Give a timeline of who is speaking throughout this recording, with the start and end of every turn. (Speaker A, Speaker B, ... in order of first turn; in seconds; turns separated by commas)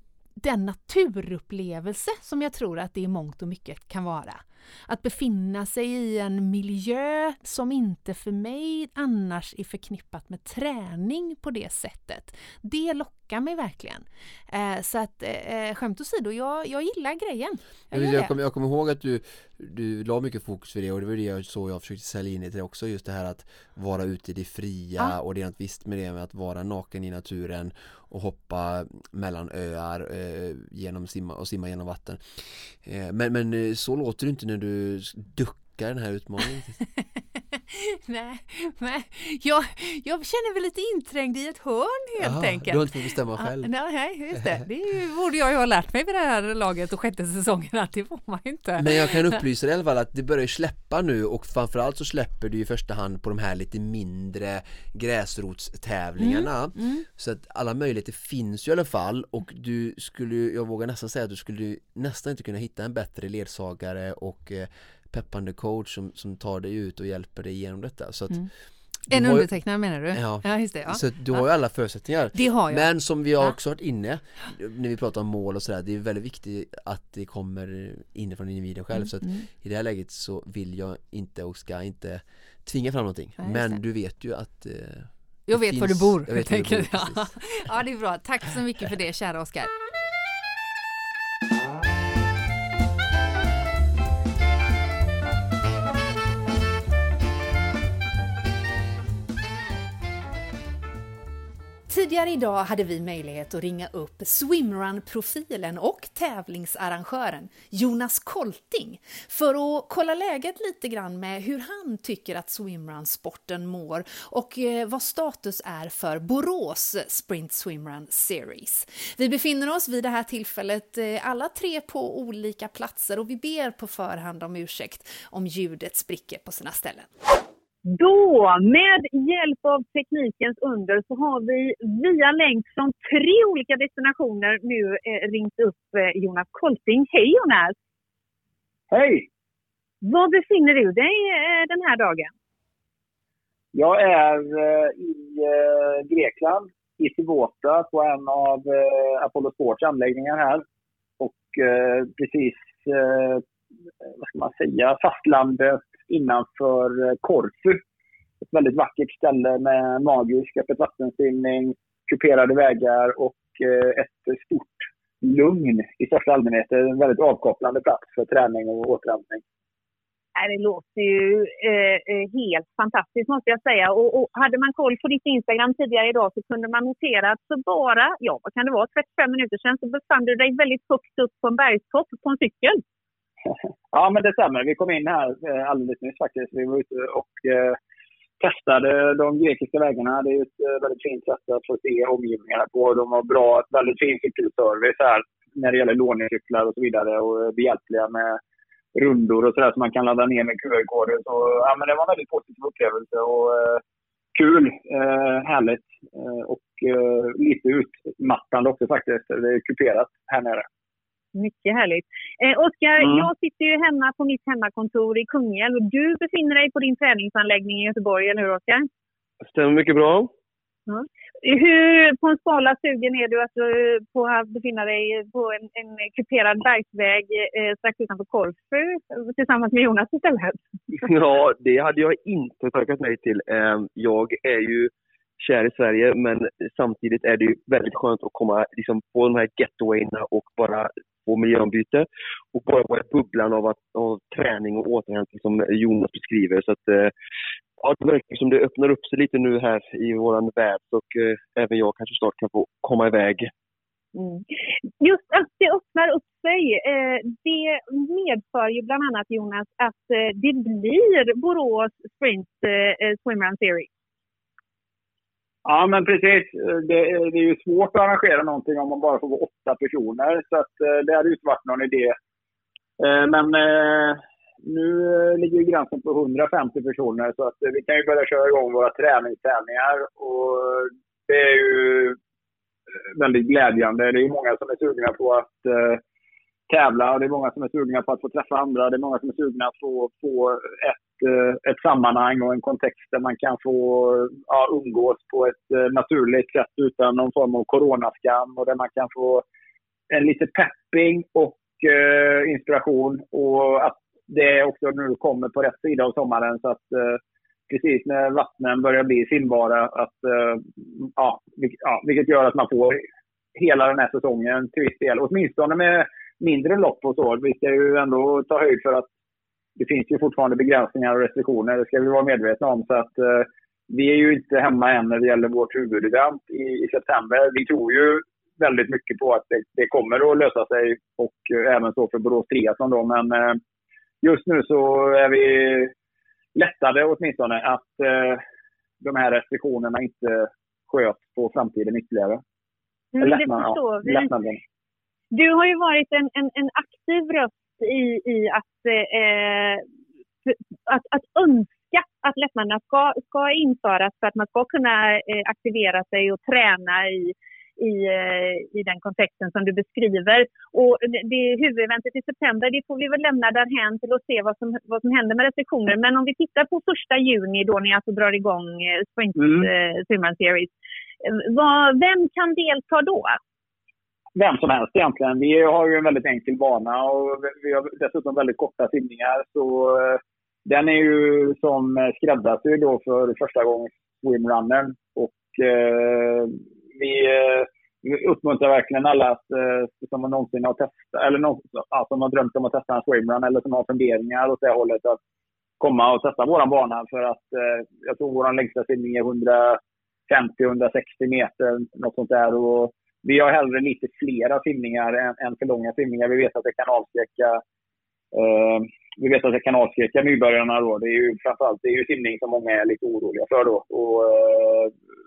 Speaker A: 0.4-18.3, Speaker B: 17.9-36.8, Speaker A: 37.0-49.4, Speaker B: 42.2-43.7, Speaker B: 44.3-44.6, Speaker B: 48.8-68.4, Speaker A: 56.2-57.0, Speaker B: 69.1-69.5, Speaker A: 69.1-71.4, Speaker B: 70.1-87.3, Speaker A: 72.3-72.9, Speaker A: 78.9-79.5, Speaker A: 83.4-83.8, Speaker A: 85.5-89.7, Speaker A: 101.9-127.1, Speaker C: 127.9-137.7, Speaker D: 138.9-139.3, Speaker C: 140.0-142.3, Speaker D: 143.7-150.6, Speaker D: 151.2-153.4, Speaker D: 154.2-157.8, Speaker D: 158.4-169.4, Speaker C: 170.3-182.8, Speaker D: 183.9-187.8, Speaker D: 188.4-198.4, Speaker D: 198.9-203.8, Speaker D: 204.3-210.7, Speaker C: 211.3-218.9, Speaker E: 219.4-220.3, Speaker C: 220.9-230.6, Speaker E: 230.9-247.1, Speaker E: 247.8-253.5, Speaker C: 254.1-254.4, Speaker C: 255.0-263.9, Speaker D: 265.6-272.1, Speaker D: 273.0-282.2, Speaker D: 283.1-286.0, Speaker D: 286.7-299.4, Speaker D: 300.1-313.0, Speaker D: 313.6-319.1, Speaker D: 319.8-333.6, Speaker D: 334.2-335.9, Speaker D: 336.6-338.4, Speaker D: 339.0-342.4, Speaker C: 343.1-344.3, Speaker D: 343.2-344.6, Speaker C: 345.3-349.8, Speaker C: 350.4-370.7, Speaker D: 369.4-369.7, Speaker C: 371.2-373.4, Speaker D: 374.4-395.2, Speaker D: 395.8-407.6, Speaker D: 408.3-414.9